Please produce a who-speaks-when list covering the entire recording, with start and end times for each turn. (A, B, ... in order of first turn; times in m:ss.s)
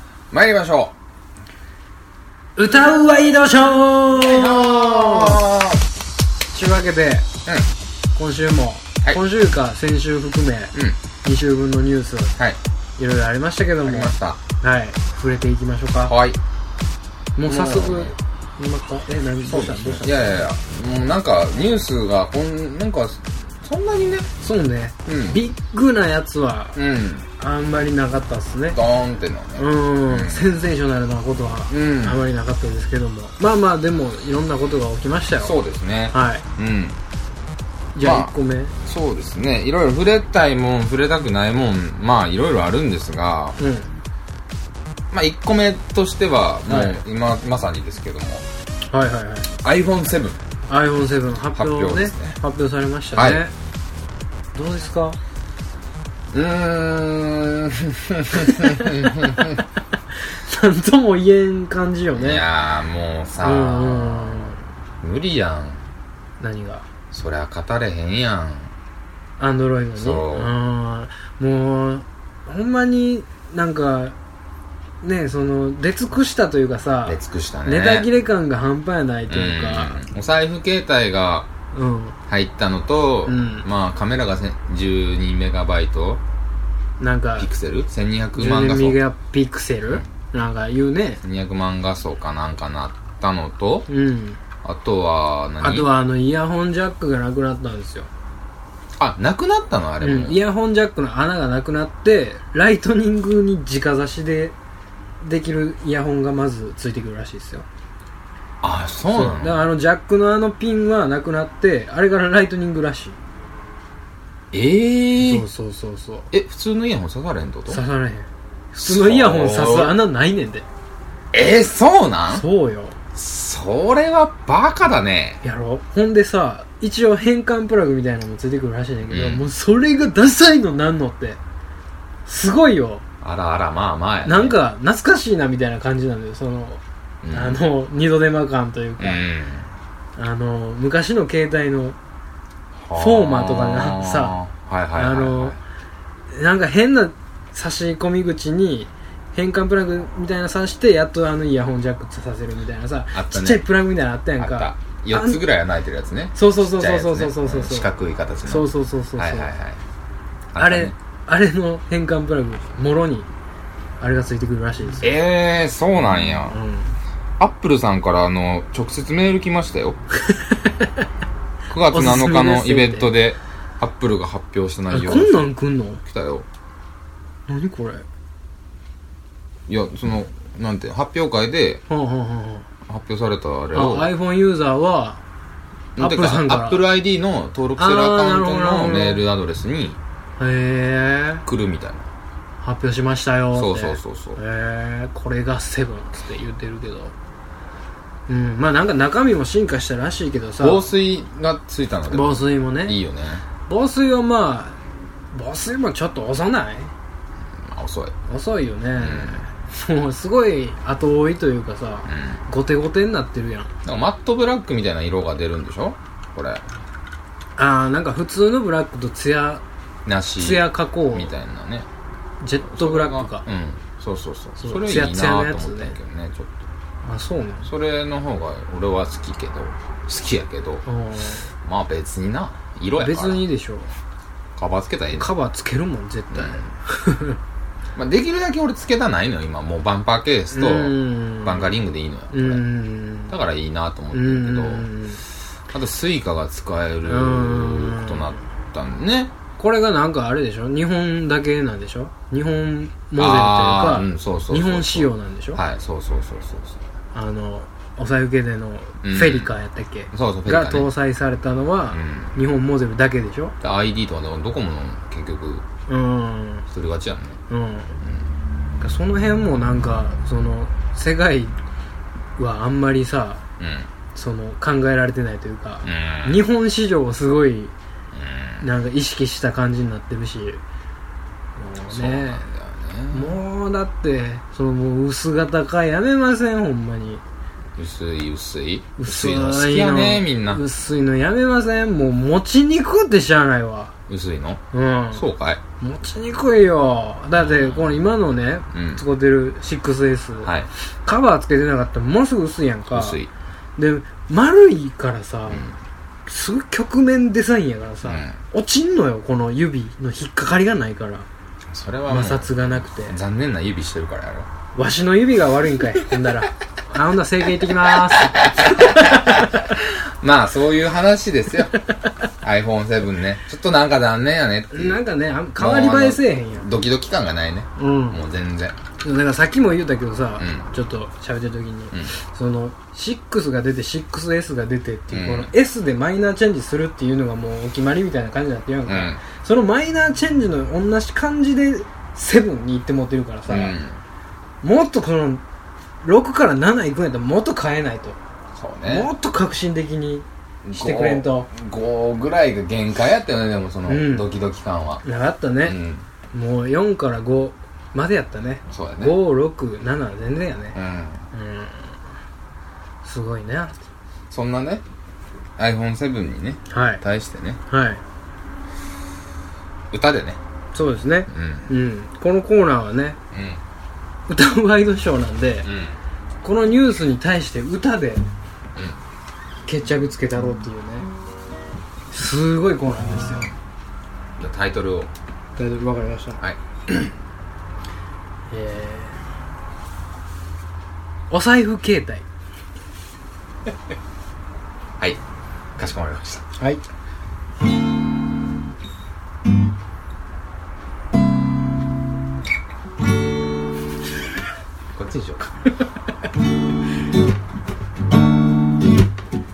0:00.3-0:00.9 A
0:02.6-0:05.4 B
0:04.2-0:05.8 A
0:06.5-0:07.2 B
0:08.1-0:12.3 B
0:13.0-0:16.1 B
0:13.8-0:14.4 A
0:16.0-0:16.4 A
0:17.4-0:20.4 B
0:17.4-0:18.1 A
0:19.4-0:24.3 A
0:24.4-0:26.8 B
0:25.0-0:25.4 A
0:26.8-0:27.3 A
0:27.4-0:28.8 B
0:28.7-0:30.5 A
0:29.6-0:35.6 B
0:31.7-0:32.2 A
0:35.4-0:37.0 A
0:36.1-0:36.4 B
0:37.9-0:38.7 B
0:38.0-0:38.3 A
0:38.8-0:43.6 A
0:43.6-0:43.9 B
0:45.1-0:48.4 A
0:46.7-0:47.0 B
0:48.9-0:49.5 B
0:49.6-0:50.4 A
0:50.7-0:53.5 B
0:51.5-0:52.4 A
0:53.1-0:53.4 A
0:54.5-0:55.2 B
0:56.3-0:59.6 A
0:58.4-0:59.4 B
1:00.2-1:02.4 B
1:02.2-1:05.8 A
1:03.4-1:04.6 B
1:06.4-1:06.8 B
1:07.1-1:08.7 A
1:09.4-1:14.1 B
1:10.0-1:10.5 A
1:15.0-1:20.0 B
1:17.0-1:18.1 A
1:19.3-1:21.5 A
1:21.7-1:22.2 B
1:22.3-1:26.2 A
1:23.3-1:23.6 B
1:27.0-1:27.5 B
1:27.4-1:29.0 A
1:28.4-1:31.2 B
1:31.2-1:33.9 A
1:33.9-1:34.4 B
1:34.6-1:35.9 A
1:35.6-1:38.1 B
1:39.0-1:40.4 A
1:40.0-1:44.5 B
1:45.2-1:47.6 B
1:48.6-1:49.6 A
1:49.1-1:53.2 B
1:54.5-1:55.4 A
1:55.2-1:56.3 B
1:56.3-1:57.8 A
1:57.7-2:00.6 B
1:58.8-2:00.0 A
2:01.3-2:02.4 A
2:02.3-2:03.0 B
2:03.1-2:05.4 A
2:05.4-2:11.4 B
2:09.1-2:09.4 A
2:12.2-2:13.0 B
2:13.2-2:14.6 A
2:14.2-2:19.3 B
2:17.2-2:17.6 A
2:19.0-2:19.7 A
2:20.2-2:22.0 B
2:22.8-2:25.6 A
2:22.9-2:24.4 B
2:24.9-2:25.6 B
2:26.3-2:35.4 B
2:33.1-2:33.6 A
2:34.4-2:39.8 A
2:36.3-2:37.9 B
2:38.4-2:39.5 B
2:40.5-2:40.9 A
2:40.6-2:43.3 B
2:44.0-2:45.1 B
2:45.0-2:46.6 A
2:46.5-2:47.0 B
2:47.4-2:50.0 A
2:50.2-2:51.0 B
2:51.7-2:55.5 A
2:51.8-2:53.1 B
2:54.9-2:56.0 B
2:56.0-2:56.4 A
2:57.5-2:58.0 B
2:59.7-3:01.8 A
3:01.9-3:02.6 B
3:02.8-3:04.1 A
3:03.7-3:05.2 B
3:06.0-3:10.0 A
3:06.0-3:06.8 B
3:07.8-3:09.2 B
3:10.4-3:11.4 B
3:11.4-3:12.1 A
3:12.6-3:17.1 B
3:13.5-3:14.4 A
3:18.3-3:20.9 B
3:20.6-3:23.4 A
3:22.1-3:23.0 B
3:23.6-3:24.8 B
3:25.3-3:26.9 B
3:27.6-3:28.2 A
3:28.3-3:33.7 B
3:29.0-3:29.4 A
3:32.1-3:32.4 A
3:33.8-3:36.6 A
3:37.6-3:39.6 B
3:40.0-3:41.9 A
3:40.4-3:41.3 B
3:42.4-3:43.4 B
3:42.6-3:46.7 A
3:44.6-3:46.0 B
3:47.0-3:47.7 B
3:47.6-3:50.8 A
3:50.8-3:51.5 B
3:51.6-3:53.4 A
3:53.0-3:53.9 B
3:54.6-3:55.3 A
3:55.2-3:57.4 B
3:56.3-3:56.7 A
3:57.9-4:02.6 A
4:00.5-4:01.7 B
4:02.3-4:03.3 B
4:03.3-4:04.9 A
4:04.1-4:05.2 B
4:05.7-4:09.3 A
4:07.0-4:08.4 B
4:09.6-4:15.6 B
4:13.2-4:16.8 A
4:17.1-4:23.5 B
4:19.0-4:19.5 A
4:20.1-4:20.9 A
4:21.9-4:22.3 A
4:23.6-4:25.6 A
4:25.9-4:26.7 B
4:26.7-4:27.4 A
4:27.5-4:28.0 B
4:28.8-4:31.6 B
4:32.4-4:33.4 B
4:33.6-4:33.9 A
4:34.1-4:37.7 B
4:35.8-4:36.4 A
4:38.1-4:38.6 A
4:38.6-4:40.6 B
4:41.6-4:42.4 B
4:41.9-4:43.4 A
4:43.1-4:47.2 B
4:47.8-4:50.6 A
4:49.0-4:53.9 B
4:54.1-4:54.6 A
4:54.7-4:55.2 B
4:55.1-4:55.6 A
4:55.8-5:00.5 B
4:57.4-4:58.0 A
4:58.7-4:59.0 A
5:00.4-5:00.7 A
5:01.0-5:03.2 B
5:02.9-5:03.3 A
5:03.8-5:05.6 B
5:05.5-5:05.8 A
5:06.3-5:11.3 B
5:08.0-5:08.4 A
5:11.7-5:14.5 A
5:12.1-5:13.2 B
5:14.7-5:19.7 B
5:17.9-5:21.8 A
5:22.4-5:25.0 A
5:24.7-5:26.7 B
5:25.6-5:28.8 A
5:27.8-5:28.2 B
5:29.0-5:43.8 B
5:30.4-5:30.7 A
5:35.1-5:35.5 A
5:38.9-5:39.2 A
5:43.5-5:44.0 A
5:44.6-5:45.4 B
5:46.0-5:48.2 B
5:48.5-5:49.1 A
5:48.8-5:51.5 B
5:50.6-5:55.0 A
5:53.8-5:54.3 B
5:55.0-5:55.8 B
5:55.6-5:56.0 A
5:56.3-6:00.8 B
5:58.7-5:59.1 A
6:00.7-6:01.2 A
6:01.3-6:01.9 B
6:03.0-6:03.8 B
6:04.3-6:04.8 A
6:05.6-6:07.6 A
6:06.7-6:07.0 B
6:07.7-6:08.0 B
6:09.9-6:10.4 A
6:10.7-6:13.2 B
6:11.3-6:11.7 A
6:13.3-6:13.6 A
6:14.3-6:15.7 B
6:15.6-6:15.9 A
6:16.4-6:18.2 B
6:19.6-6:21.1 B
6:22.1-6:23.5 B
6:24.4-6:25.1 A
6:25.6-6:26.4 B
6:26.4-6:27.1 A
6:28.5-6:29.2 B
6:31.3-6:32.2 B
6:35.8-6:36.4 A
6:44.9-6:45.5 A